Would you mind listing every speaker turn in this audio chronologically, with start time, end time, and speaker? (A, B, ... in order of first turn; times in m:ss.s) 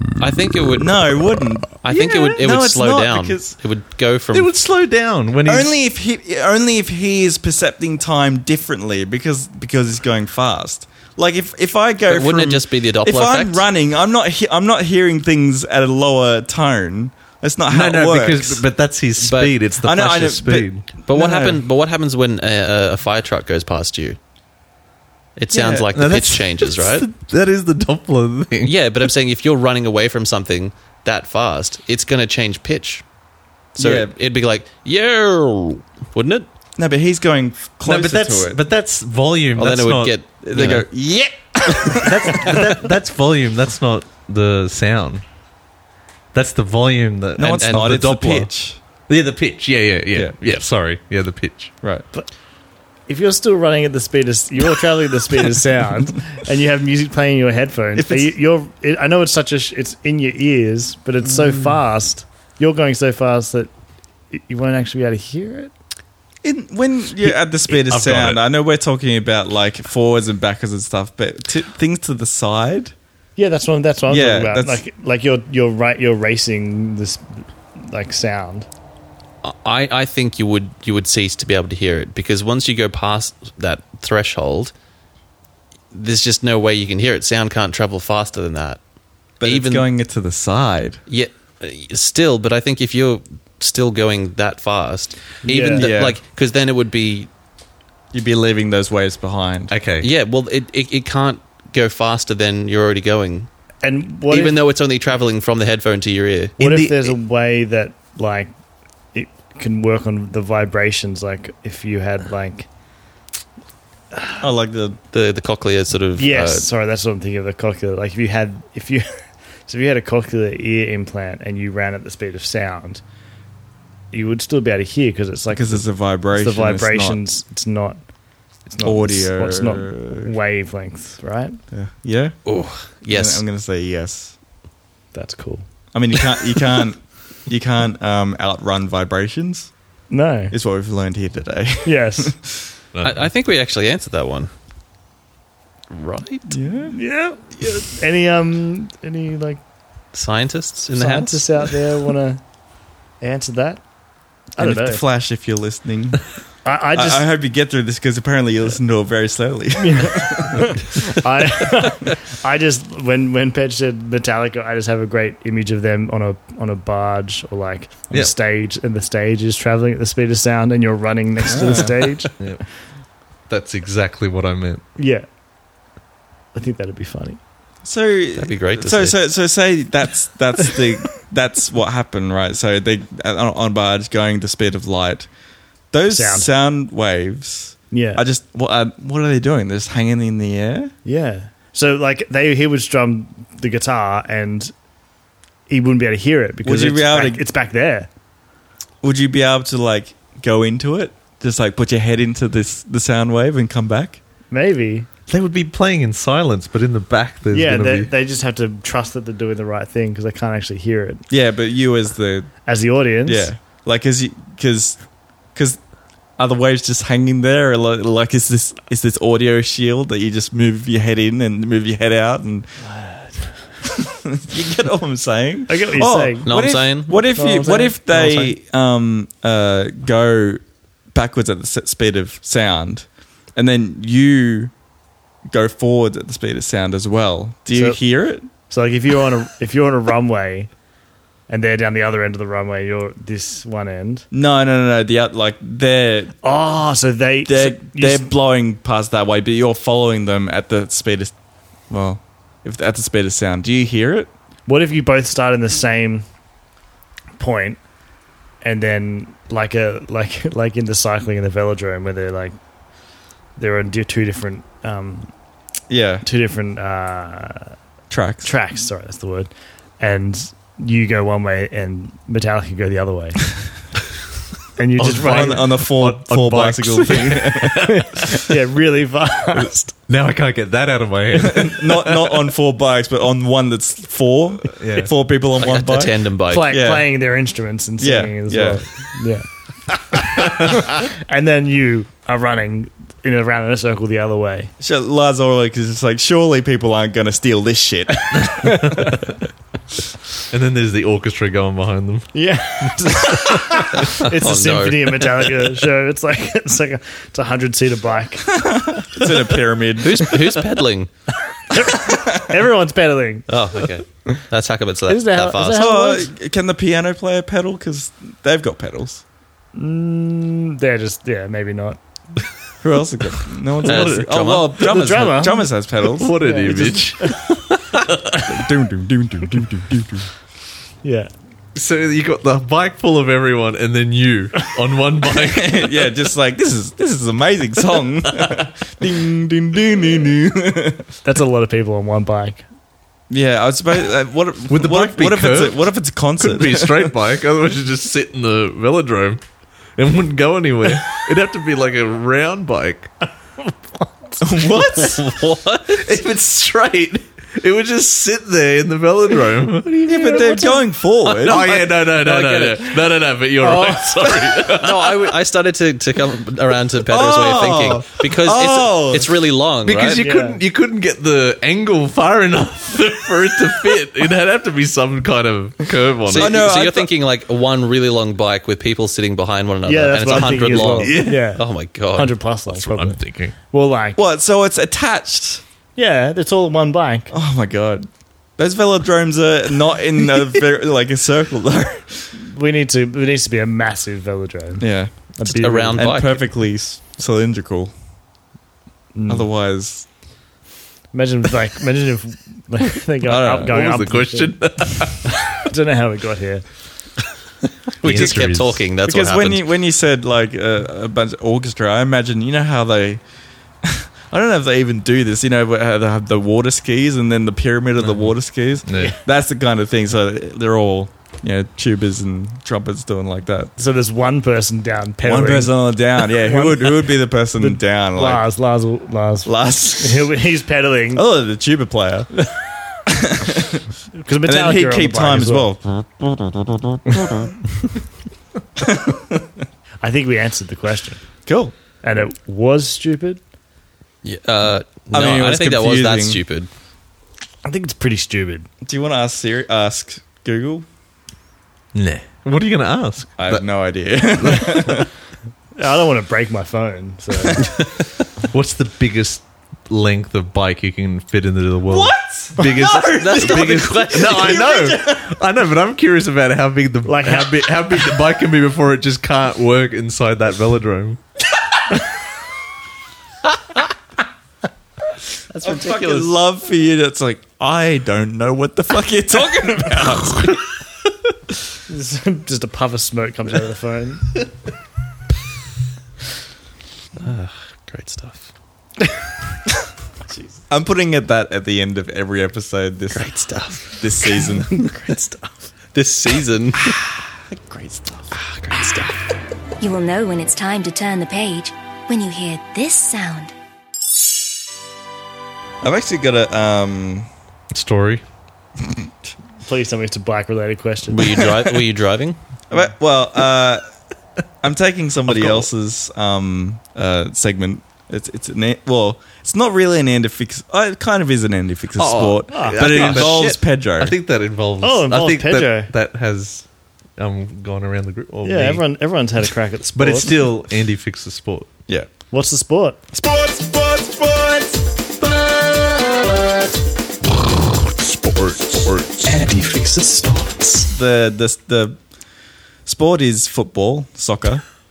0:00.2-0:00.9 A
0:00.8-0:01.8 B
0:01.8-0:04.5 A
0:01.9-0:02.4 C
0:02.4-0:03.5 B
0:04.3-0:05.7 C
0:05.4-0:18.6 B
0:12.1-0:13.6 A
0:17.7-0:20.9 C
0:19.2-0:19.5 A
0:19.8-0:21.6 B
0:21.0-0:24.2 A
0:25.4-0:27.1 A
0:25.5-0:25.9 B
0:25.9-0:29.1 C
0:28.6-0:33.0 A
0:33.7-0:36.5 A
0:33.8-0:34.1 B
0:36.8-0:38.6 B
0:37.8-0:40.8 C
0:39.6-0:40.9 A
0:40.4-0:42.8 B
0:41.9-0:45.2 C
0:46.3-0:48.5 C
0:47.4-0:48.8 B
0:47.6-0:47.9 A
0:49.1-0:51.7 C
0:53.1-1:03.7 D
0:58.0-0:58.3 B
1:04.3-1:05.7 D
1:06.4-1:12.9 B
1:07.7-1:08.4 C
1:13.4-1:18.7 D
1:14.1-1:14.8 B
1:19.4-1:24.7 A
1:25.9-1:28.8 A
1:29.4-1:31.0 B
1:29.4-1:29.8 A
1:31.1-1:37.3 A
1:35.4-1:35.9 D
1:35.7-1:36.2 B
1:38.1-1:39.7 B
1:39.7-1:40.1 C
1:40.0-1:43.5 A
1:43.8-1:44.6 D
1:44.3-1:46.6 A
1:46.6-1:47.0 C
1:46.6-1:48.5 D
1:49.1-1:52.7 D
1:54.1-1:54.4 D
1:54.4-1:55.0 B
1:55.1-1:56.7 A
1:56.2-2:03.0 D
2:04.1-2:08.0 D
2:05.5-2:07.2 B
2:08.7-2:11.6 D
2:08.8-2:10.3 B
2:11.7-2:12.4 B
2:12.4-2:13.4 A
2:13.1-2:14.4 B
2:15.1-2:15.6 D
2:15.9-2:19.7 B
2:20.1-2:20.5 D
2:20.5-2:22.7 B
2:21.8-2:22.3 D
2:22.9-2:23.2 C
2:23.0-2:24.5 A
2:25.9-2:26.5 A
2:26.5-2:26.9 B
2:26.8-2:29.6 D
2:30.1-2:31.7 A
2:30.9-2:32.4 D
2:33.2-2:33.8 D
2:34.6-2:35.0 D
2:34.6-2:36.2 B
2:36.6-2:37.2 D
2:36.9-2:40.8 B
2:39.8-2:52.3 D
2:51.5-2:51.9 B
2:53.5-2:54.8 C
2:55.0-2:55.3 D
2:56.5-2:57.4 D
2:57.8-3:05.3 B
2:58.4-2:59.2 A
3:05.9-3:10.9 B
3:06.1-3:06.5 D
3:07.9-3:08.2 D
3:11.0-3:14.7 D
3:15.7-3:18.1 D
3:16.6-3:17.4 B
3:19.0-3:24.2 B
3:24.5-3:25.1 D
3:25.3-3:28.1 C
3:27.5-3:31.2 D
3:31.3-3:32.5 B
3:32.7-3:33.5 D
3:33.2-3:35.0 B
3:35.5-3:35.8 B
3:36.4-3:42.7 B
3:42.8-3:43.5 D
3:43.9-3:50.6 B
3:45.7-3:46.5 D
3:46.4-3:47.2 A
3:47.3-3:48.5 D
3:51.1-3:54.7 B
3:55.5-3:58.5 B
3:57.7-3:58.0 D
3:58.6-4:00.7 D
4:01.5-4:04.2 D
4:04.3-4:06.3 B
4:06.4-4:08.3 D
4:07.5-4:11.3 B
4:11.9-4:14.3 B
4:14.7-4:16.2 D
4:17.4-4:17.8 D
4:18.6-4:22.6 D
4:23.6-4:25.3 D
4:25.9-4:26.2 B
4:26.2-4:27.7 D
4:28.1-4:28.5 B
4:28.4-4:33.5 D
4:34.8-4:35.7 D
4:35.0-4:37.9 B
4:35.2-4:38.3 C
4:37.8-4:39.9 D
4:40.1-4:42.3 C
4:41.4-4:47.1 B
4:44.8-4:45.1 C
4:45.6-4:46.7 A
4:46.5-4:49.4 D
4:48.0-4:49.0 B
4:50.1-4:54.7 D
4:54.8-4:58.8 B
4:58.4-4:59.2 C
4:58.6-4:59.0 D
5:00.5-5:02.9 C
5:02.3-5:09.4 D
5:03.9-5:05.5 A
5:08.5-5:10.4 B
5:10.0-5:11.1 A
5:11.7-5:13.5 D
5:12.1-5:12.5 B
5:13.5-5:15.9 A
5:15.1-5:16.3 D
5:15.7-5:19.2 B
5:19.7-5:22.0 D
5:22.8-5:27.0 B
5:23.8-5:25.4 A
5:24.8-5:25.7 D
5:26.1-5:28.5 C
5:26.4-5:27.4 D
5:28.4-5:30.3 B
5:31.0-5:31.3 D
5:31.7-5:36.0 C
5:35.4-5:41.1 B
5:41.2-5:42.6 D
5:43.3-5:47.1 B
5:44.7-5:49.4 C
5:50.0-5:53.1 C
5:53.6-5:54.4 D
5:54.4-5:55.2 B
5:54.7-5:56.0 A
5:55.9-6:00.1 C
5:59.9-6:00.8 D
6:00.0-6:01.7 B
6:01.4-6:05.3 C
6:01.5-6:02.9 D
6:03.6-6:04.3 D
6:04.6-6:10.2 A
6:07.0-6:09.4 B
6:09.8-6:16.6 C
6:10.2-6:10.6 D
6:16.3-6:22.4 A
6:16.3-6:17.1 B
6:19.8-6:24.2 D
6:20.4-6:21.5 C
6:22.7-6:23.6 C
6:24.2-6:25.6 B
6:26.0-6:27.3 D
6:27.3-6:32.3 B
6:32.3-6:36.1 D
6:34.8-6:35.1 B
6:35.4-6:36.4 A
6:35.9-6:37.9 B
6:39.1-6:39.5 D
6:39.3-6:40.1 B
6:41.1-6:46.7 D
6:43.2-6:43.7 B
6:43.6-6:45.6 C
6:48.0-6:49.6 A
6:48.0-6:48.8 C
6:49.0-6:53.2 B
6:53.8-7:03.7 B
6:58.9-6:59.2 C
7:03.8-7:11.2 D
7:05.2-7:08.4 B
7:09.4-7:10.3 B
7:11.1-7:12.3 B
7:13.1-7:13.8 B
7:14.1-7:15.7 D
7:14.4-7:17.5 B
7:18.8-7:19.4 B
7:20.0-7:21.2 D
7:21.4-7:21.7 B
7:22.0-7:23.4 D
7:24.2-7:26.7 A
7:25.1-7:26.4 B
7:27.6-7:28.7 D
7:28.8-7:30.8 B
7:31.9-7:33.6 C
7:33.4-7:35.1 B
7:35.8-7:37.7 D
7:38.5-7:51.2 C
7:41.9-7:45.3 B
7:43.1-7:44.8 A
7:47.0-7:47.8 D
7:55.5-7:56.3 A
7:55.6-8:00.6 B
8:01.9-8:04.4 D
8:07.2-8:08.5 A
8:10.7-8:13.3 B
8:13.1-8:14.4 A
8:13.8-8:14.9 B
8:14.7-8:15.5 D
8:15.9-8:17.0 A
8:17.5-8:18.2 B
8:18.3-8:19.2 A
8:19.8-8:23.5 E
8:25.8-8:27.3 B
8:27.7-8:28.2 C
8:29.6-8:31.4 D
8:31.1-8:32.4 A
8:32.7-8:33.8 B
8:34.6-8:44.1 B
8:35.3-8:35.7 C
8:42.0-8:46.6 C
8:42.5-8:43.3 D
8:44.8-8:45.9 D
8:47.2-8:48.8 C
8:48.4-8:50.4 D
8:50.0-8:51.7 C
8:52.3-8:53.0 D
8:53.1-8:54.9 B
8:58.1-8:59.3 C
8:59.3-9:00.8 D
9:00.9-9:02.0 B
9:02.9-9:04.6 B